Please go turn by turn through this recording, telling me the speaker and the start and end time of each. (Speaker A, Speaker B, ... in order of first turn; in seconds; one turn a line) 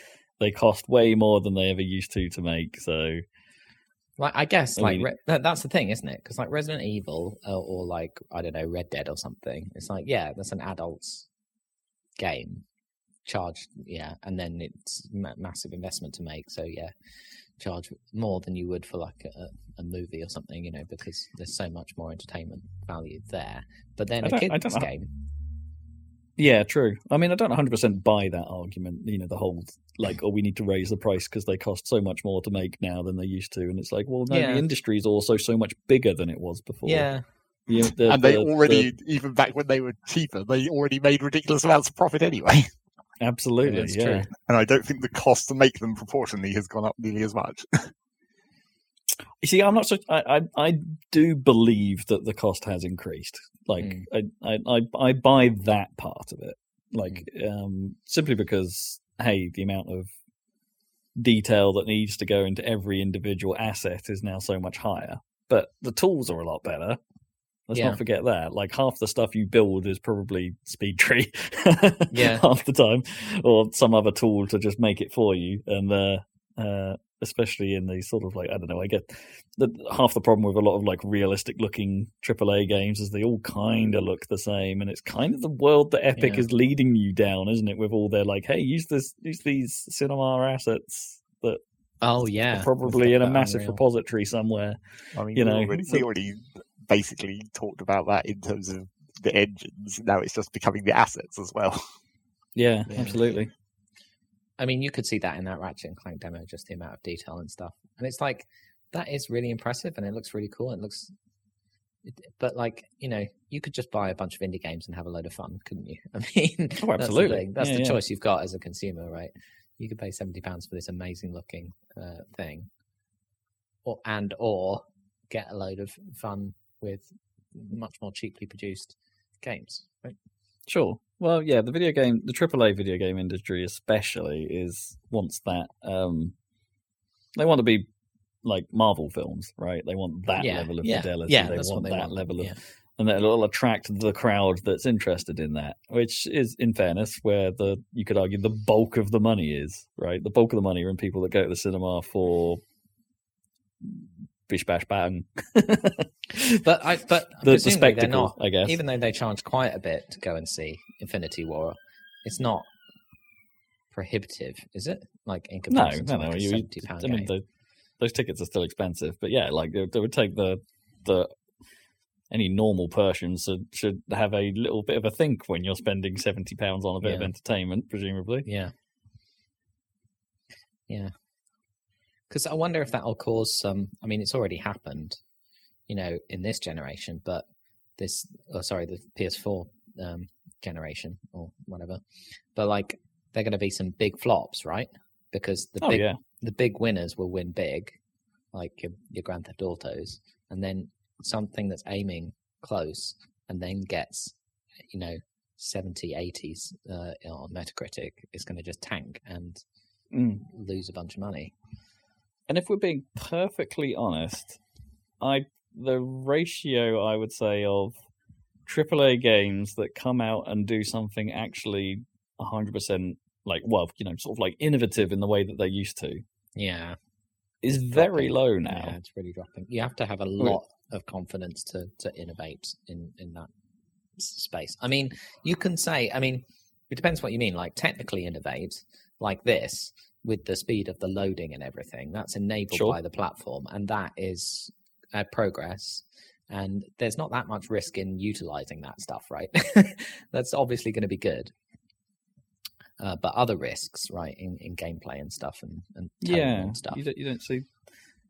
Speaker A: 0.4-3.2
Speaker B: 4.2-11.3
Speaker A: 4.8-5.1
Speaker B: 12.2-12.6
Speaker B: 13.2-16.9
Speaker B: 17.6-25.1
Speaker A: 24.2-24.9
Speaker A: 26.4-37.1
Speaker B: 34.3-34.6
Speaker B: 36.9-37.2
Speaker A: 37.7-38.9
Speaker C: 37.7-42.7
Speaker A: 43.2-44.3
Speaker B: 43.6-44.3
Speaker C: 44.5-47.9
Speaker A: 49.4-60.1
Speaker B: 53.8-54.0
Speaker A: 61.1-67.0
Speaker A: 67.7-91.6
Speaker B: 67.7-68.0
Speaker B: 72.1-72.4
Speaker B: 86.2-86.4
Speaker B: 92.0-93.8
Speaker A: 92.5-96.0
Speaker C: 95.1-101.8
Speaker A: 102.5-103.5
Speaker B: 102.9-103.2
Speaker B: 104.6-111.1
Speaker B: 112.0-122.7
Speaker A: 116.8-118.0
Speaker B: 123.8-130.2
Speaker A: 130.7-136.4
Speaker A: 137.3-137.9
Speaker A: 138.4-152.6
Speaker B: 140.4-142.6
Speaker A: 154.5-156.6
Speaker B: 156.4-162.7
Speaker A: 157.4-158.8
Speaker B: 163.9-167.3
Speaker A: 165.7-167.4
Speaker A: 168.0-171.3
Speaker A: 172.3-178.5
Speaker B: 177.0-177.3
Speaker B: 178.4-178.7
Speaker B: 182.3-185.2
Speaker B: 185.9-198.0
Speaker A: 195.8-196.2
Speaker B: 198.5-209.6
Speaker A: 210.1-210.4
Speaker B: 210.4-211.5
Speaker A: 212.5-214.6
Speaker A: 215.2-218.0
Speaker A: 218.7-226.2
Speaker B: 226.6-227.0
Speaker A: 227.6-228.9
Speaker B: 227.7-233.5
Speaker B: 234.2-251.5
Speaker B: 253.0-257.0
Speaker A: 256.2-257.9